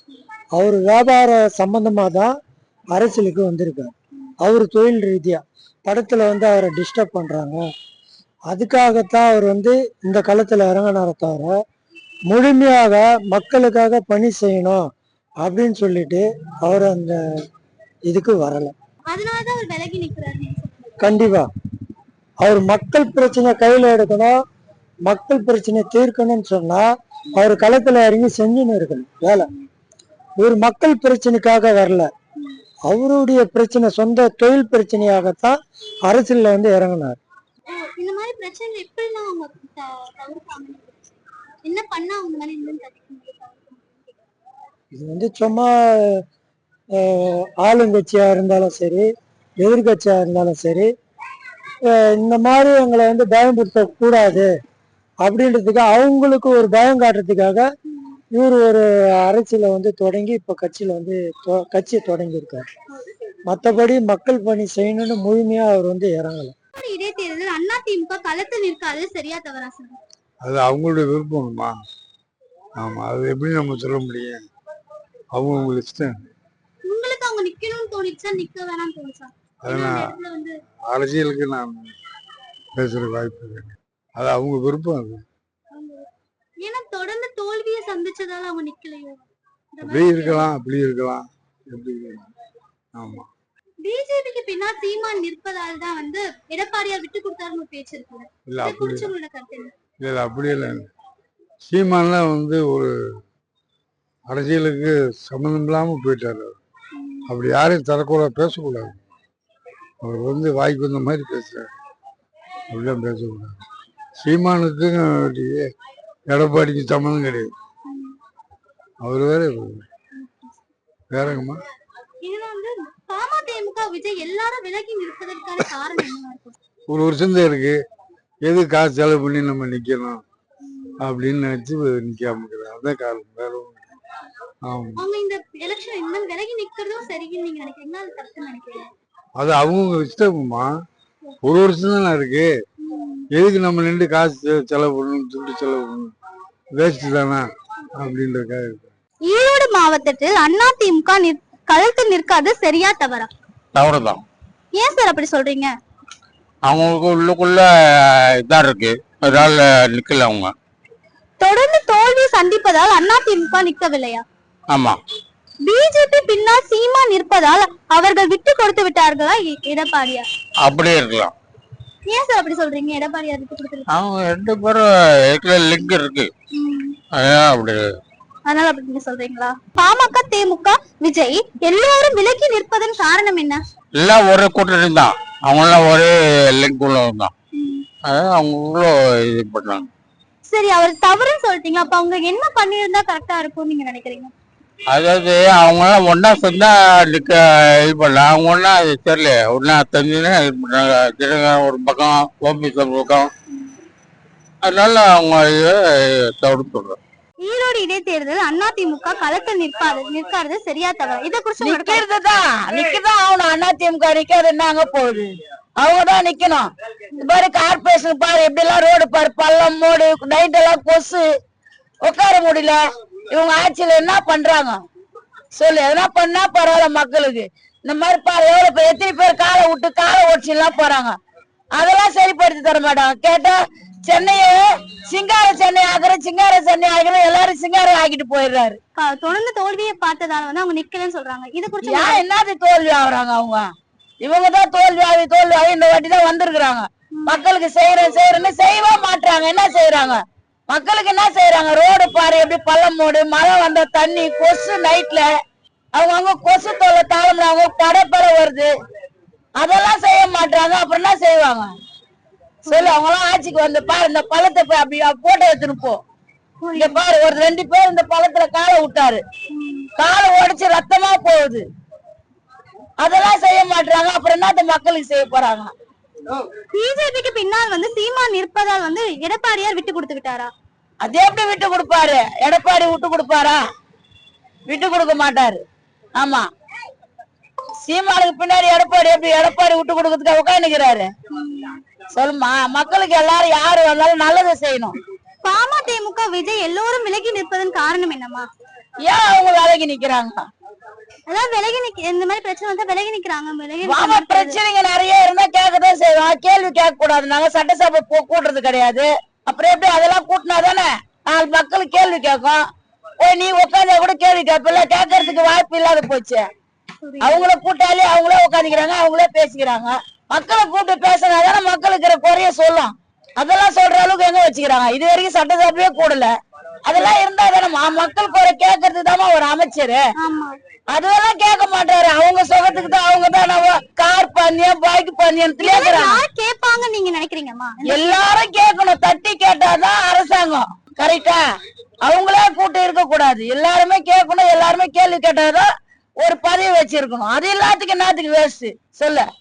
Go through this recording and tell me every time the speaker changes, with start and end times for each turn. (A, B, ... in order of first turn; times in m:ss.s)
0:00.6-0:02.3 A
0:02.9-0:07.6 A
0:08.5-0:11.6 A
0:12.3-0:14.8 A
0:15.4-0:17.2 A
0:18.1-0:18.7 A
0:19.1-0:21.1 B
0:21.0-0:21.5 A
0:22.4-0:24.4 A
0:25.1-0:29.5 A
0:30.4-0:32.1 A
0:32.9-0:35.6 A
0:36.1-0:37.2 A
0:37.7-0:41.0 B
0:41.6-0:44.2 B
0:44.9-0:45.7 A
0:47.0-0:49.1 A
0:49.6-0:50.9 A
0:51.9-0:54.5 A
0:55.2-0:57.6 A
0:58.3-1:02.6 A
1:03.5-1:06.5 A
1:06.8-1:10.0 B
1:10.4-1:11.7 C
1:12.8-1:14.4 C
1:15.3-1:16.2 C
1:16.9-1:20.5 B
1:19.6-1:20.2 C
1:20.9-1:21.9 C
1:22.8-1:25.2 C
1:25.7-1:26.1 B
1:26.6-1:30.5 B
1:29.8-1:32.2 C
1:33.0-1:33.3 C
1:33.8-1:39.7 B
1:38.5-1:39.1 C
1:40.0-1:40.9 C
1:41.6-1:42.9 C
1:44.3-1:46.6 C
1:47.3-1:49.0 C
1:50.0-1:51.7 C
1:52.7-1:53.6 C
1:54.2-1:55.7 C
1:56.3-1:57.5 C
1:57.9-1:58.2 B
1:59.0-1:59.9 C
2:01.1-2:01.6 C
2:02.2-2:06.6 B
2:06.9-2:07.8 C
2:08.4-2:10.2 C
2:11.0-2:13.8 C
2:14.7-2:15.0 C
2:15.0-2:18.9 B
2:19.4-2:20.7 C
2:21.4-2:22.5 C
2:22.9-2:23.2 B
2:23.4-2:26.1 C
2:26.8-2:27.4 C
2:28.0-2:28.9 C
2:29.3-2:33.3 B
2:33.8-2:34.2 D
2:34.8-2:35.7 B
2:36.6-2:40.5 D
2:41.4-2:44.2 B
2:44.7-2:45.0 D
2:45.7-2:50.3 B
2:50.6-2:51.3 D
2:52.1-2:53.9 B
2:53.9-2:56.3 D
2:56.5-2:57.0 B
2:57.1-2:57.9 D
2:58.5-3:03.6 B
3:04.0-3:07.3 D
3:07.6-3:07.8 B
3:08.0-3:09.8 D
3:10.5-3:14.3 B
3:14.9-3:23.3 D
3:24.6-3:27.0 D
3:27.4-3:32.0 B
3:31.6-3:36.7 E
3:37.2-3:41.2 E
3:42.0-3:42.8 E
3:43.3-3:44.8 E
3:45.6-3:51.1 E
3:51.8-3:58.8 E
3:59.0-4:02.2 B
4:01.8-4:03.6 E
4:04.2-4:15.3 E
4:16.0-4:18.7 E
4:19.6-4:21.7 E
4:22.6-4:23.0 B
4:22.7-4:26.0 E
4:26.6-4:27.0 B
4:26.8-4:29.2 E
4:29.5-4:29.9 B
4:30.0-4:31.6 E
4:33.0-4:35.7 E
4:36.7-4:40.5 B
4:41.0-4:43.6 E
4:44.7-4:45.6 E
4:46.2-4:46.5 E
4:47.8-4:51.1 E
4:51.3-4:51.8 B
4:52.1-4:54.9 E
4:55.4-4:58.5 B
4:59.0-5:00.4 E
5:01.3-5:04.6 B
5:03.9-5:12.6 E
5:13.2-5:16.4 E
5:17.0-5:17.5 B
5:17.2-5:26.3 E
5:26.9-5:30.0 E
5:30.2-5:30.6 B
5:30.9-5:36.2 E
5:35.6-5:38.2 B
5:37.9-5:41.4 E
5:42.0-5:45.7 E
5:46.2-5:49.3 E